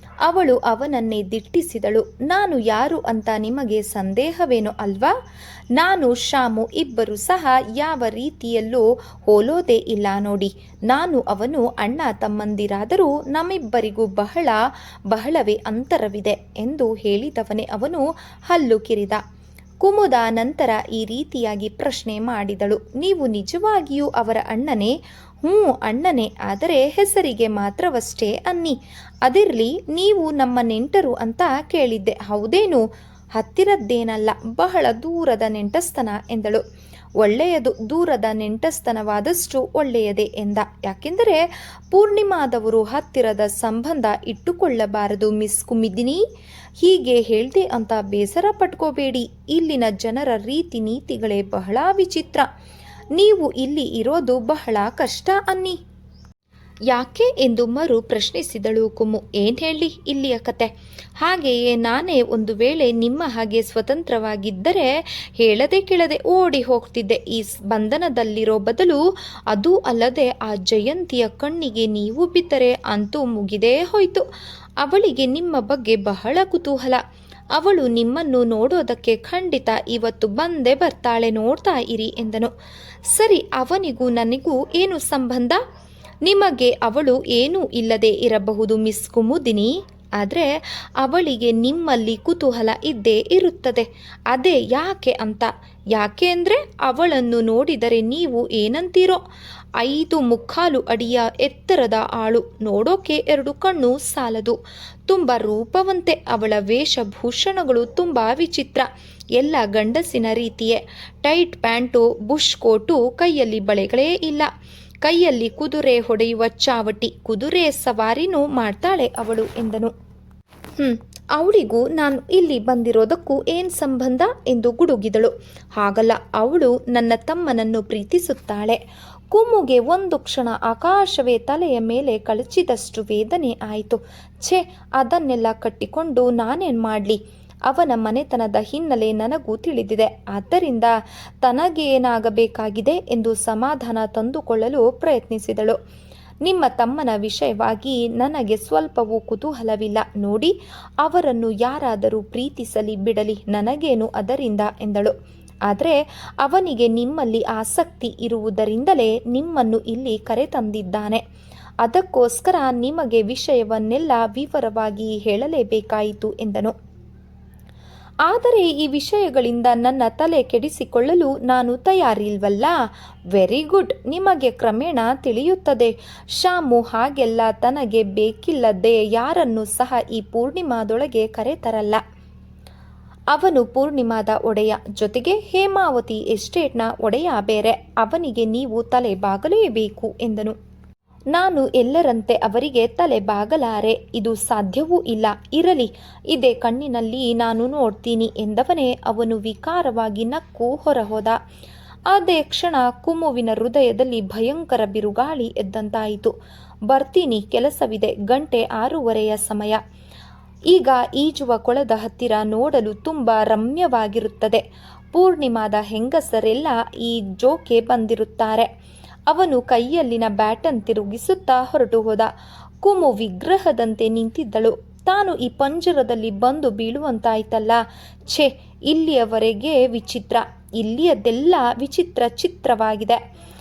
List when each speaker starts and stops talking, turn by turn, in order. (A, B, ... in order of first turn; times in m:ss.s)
0:00.3-0:05.1 A
0:05.8-0:14.6 A
0:15.1-0:19.2 A
0:19.8-0:32.8 A
0:33.4-0:36.6 A
0:37.2-0:46.2 A
0:46.8-0:52.5 A
0:53.2-0:55.8 A
0:56.9-1:14.2 A
1:14.8-1:17.0 A
1:17.6-1:22.5 A
1:23.1-1:25.6 A
1:26.2-1:30.5 A
1:31.0-1:39.2 A
1:39.8-1:44.6 A
1:45.1-1:48.9 A
1:49.4-1:54.5 A
1:55.0-1:59.9 A
2:00.8-2:08.8 A
2:09.3-2:25.8 A
2:26.4-2:35.1 A
2:35.7-2:41.2 A
2:41.8-2:46.7 A
2:48.3-2:52.8 A
2:53.3-3:02.0 A
3:03.3-3:10.6 A
3:11.3-3:21.4 A
3:22.1-3:26.3 A
3:26.9-3:29.8 A
3:30.7-3:38.7 A
3:39.3-3:42.3 A
3:42.8-3:53.2 A